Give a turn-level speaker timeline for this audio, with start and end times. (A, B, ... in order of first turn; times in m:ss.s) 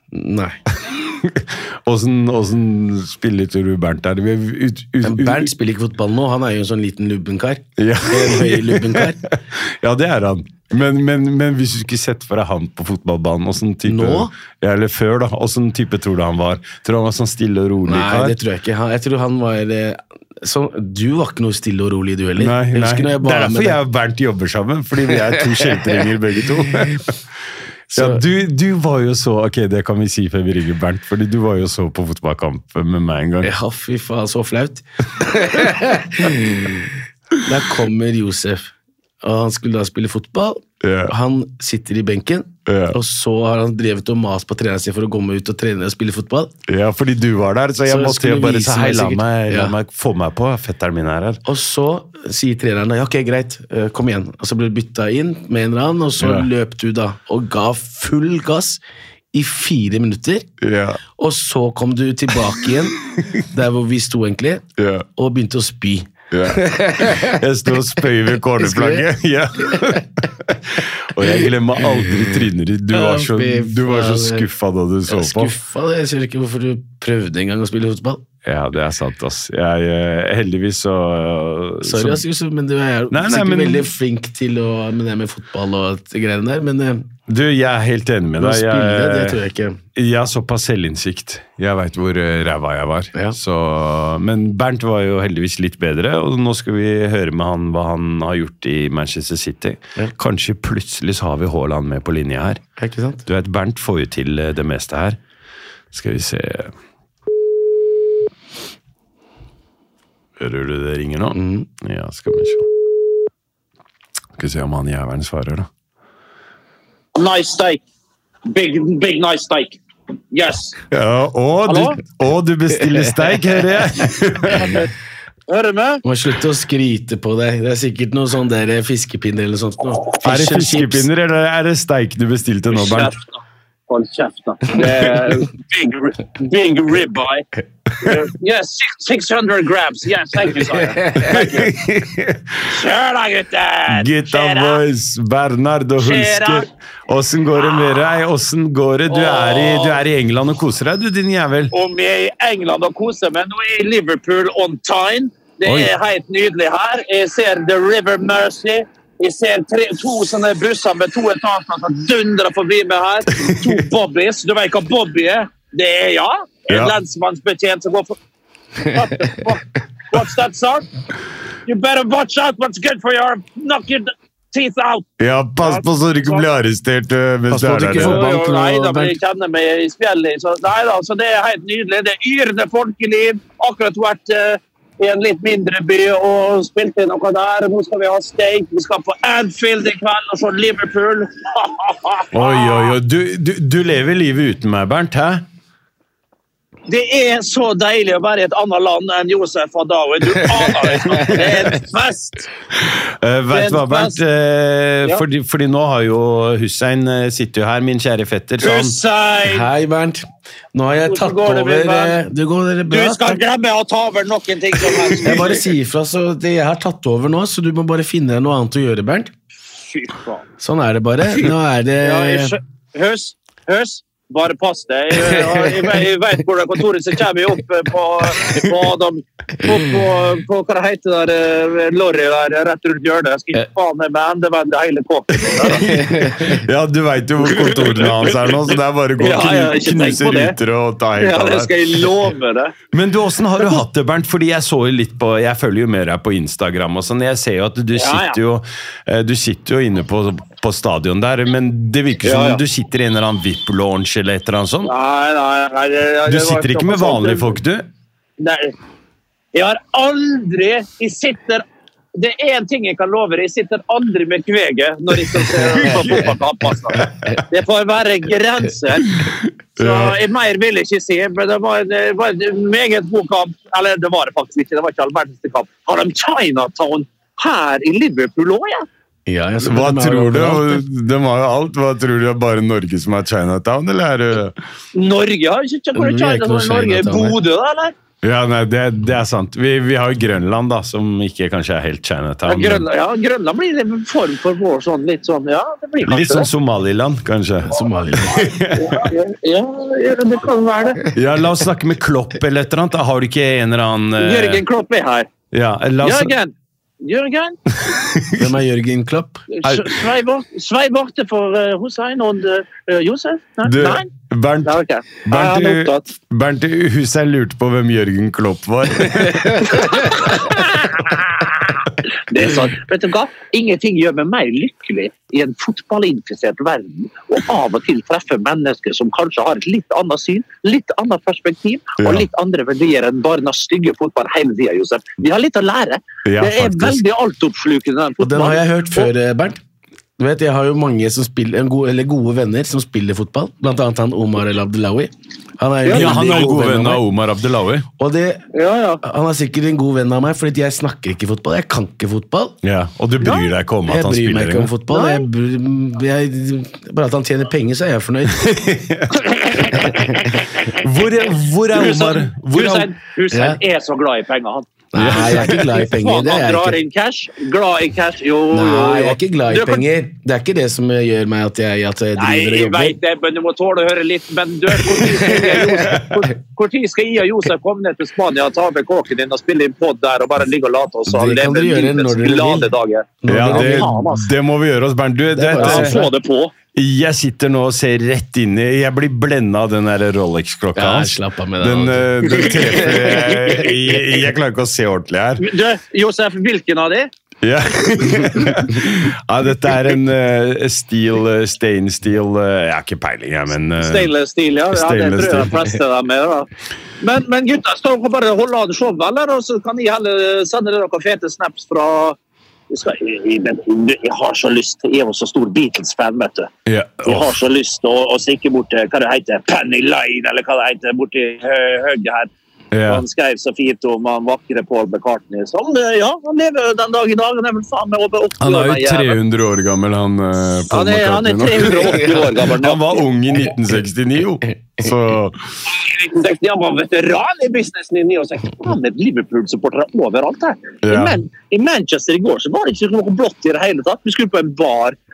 0:00.1-0:00.6 A
0:00.9-0:05.5 B
0:05.0-0:09.2 A
0:07.8-0:18.4 B
0:13.8-0:14.3 A
0:17.9-0:23.8 A
0:22.4-0:27.2 B
0:27.9-0:33.5 B
0:27.9-0:28.2 A
0:33.4-0:46.5 A
0:40.8-0:41.1 B
0:42.7-0:43.0 B
0:46.7-0:51.4 B
0:47.9-0:49.8 A
0:51.4-0:58.8 A
0:56.2-0:56.5 B
0:59.3-1:00.5 A
1:00.6-1:01.0 B
1:01.2-1:04.6 A
1:04.8-1:05.1 B
1:05.2-1:07.4 A
1:06.3-1:15.6 B
1:08.6-1:09.1 A
1:12.9-1:14.5 A
1:15.1-1:18.2 A
1:18.4-1:22.2 B
1:21.8-1:27.1 A
1:23.1-1:23.9 B
1:27.3-1:29.4 B
1:28.4-1:29.8 A
1:30.0-1:42.6 B
1:42.8-1:43.3 A
1:43.3-1:45.2 B
1:45.9-1:46.7 B
1:50.4-1:52.7 B
1:51.3-1:51.7 A
1:54.4-1:55.7 B
1:57.2-1:57.8 C
1:58.5-1:59.8 C
2:00.3-2:00.8 C
2:00.9-2:04.8 B
2:01.7-2:02.0 C
2:04.5-2:04.9 C
2:05.5-2:06.0 C
2:06.0-2:11.1 A
2:10.2-2:13.1 B
2:12.7-2:17.5 C
2:18.0-2:21.8 C
2:21.2-2:22.6 B
2:22.6-2:24.8 C
2:23.9-2:31.7 B
2:26.0-2:26.7 C
2:29.1-2:30.0 C
2:31.7-2:48.1 C
2:43.4-2:43.7 B
2:46.7-2:47.0 B
2:48.8-2:50.9 C
2:51.7-2:55.1 C
2:55.2-2:58.2 B
2:55.6-2:56.5 C
2:57.5-2:59.2 A
2:57.9-3:12.9 C
3:12.3-3:15.4 B
3:16.9-3:22.5 C
3:22.8-3:29.0 B
3:23.5-3:24.2 C
3:28.6-3:29.7 C
3:29.4-3:33.4 A
3:31.1-3:32.2 C
3:32.9-3:35.6 C
3:35.2-3:39.3 A
3:39.8-3:40.4 C
3:40.6-3:42.5 A
3:42.0-3:56.0 C
3:55.5-4:02.1 B
3:55.9-3:56.6 A
3:57.5-3:58.4 C
3:59.2-4:00.6 C
4:01.2-4:02.8 C
4:02.9-4:14.9 B
4:07.9-4:08.4 C
4:12.2-4:12.6 C
4:14.8-4:17.6 C
4:16.3-4:17.9 B
4:18.4-4:18.7 C
4:19.5-4:21.6 C
4:22.2-4:29.2 C
4:25.6-4:26.3 B
4:29.1-4:30.2 B
4:29.8-4:38.9 C
4:39.3-4:40.8 A
4:39.6-4:44.6 B
4:45.0-4:47.9 C
4:46.0-4:47.4 A
4:48.2-4:52.9 B
4:52.4-4:56.5 C
4:56.0-4:59.1 B
4:57.7-4:58.4 A
4:58.8-5:01.0 C
5:01.1-5:04.6 B
5:04.2-5:05.3 C
5:05.5-5:06.3 B
5:06.0-5:07.6 C
5:07.8-5:08.5 B
5:08.3-5:09.5 A
5:09.5-5:14.1 C
5:09.6-5:10.0 B
5:13.6-5:20.0 B
5:14.6-5:16.1 C
5:19.7-5:39.1 C
5:32.0-5:32.3 B
5:36.2-5:37.0 B
5:38.2-5:39.6 A
5:40.2-5:47.0 A
5:45.8-5:46.3 C
5:45.9-5:47.9 B
5:48.0-5:48.4 A
5:48.5-5:49.0 C
5:49.0-5:52.6 A
5:52.6-5:54.7 B
5:53.2-5:53.5 C
5:53.9-5:58.5 A
5:54.9-5:55.3 C
5:58.3-5:59.2 B
5:59.2-6:00.7 C
5:59.8-6:00.1 A
6:00.7-6:02.9 B
6:01.7-6:09.8 C
6:03.3-6:03.6 A
6:04.9-6:06.8 A
6:05.0-6:05.6 B
6:08.5-6:13.0 A
6:12.2-6:24.3 C
6:15.3-6:15.9 A
6:15.8-6:16.1 B
6:21.1-6:22.7 A
6:23.2-6:23.9 A
6:23.3-6:26.0 B
6:25.4-6:26.1 A
6:25.6-6:26.5 C
6:26.7-6:35.5 B
6:30.8-6:32.9 A
6:32.9-6:33.7 C
6:35.4-6:37.1 C
6:37.4-6:44.1 B
6:43.8-6:46.5 C
6:44.7-6:45.6 B
6:47.0-6:52.2 C
6:52.7-6:56.5 C
6:56.7-6:57.3 B
6:57.0-7:02.3 C
7:02.7-7:03.0 B
7:02.8-7:09.2 C
7:08.4-7:15.6 B
7:10.7-7:13.0 C
7:15.7-7:25.0 C
7:20.8-7:21.2 B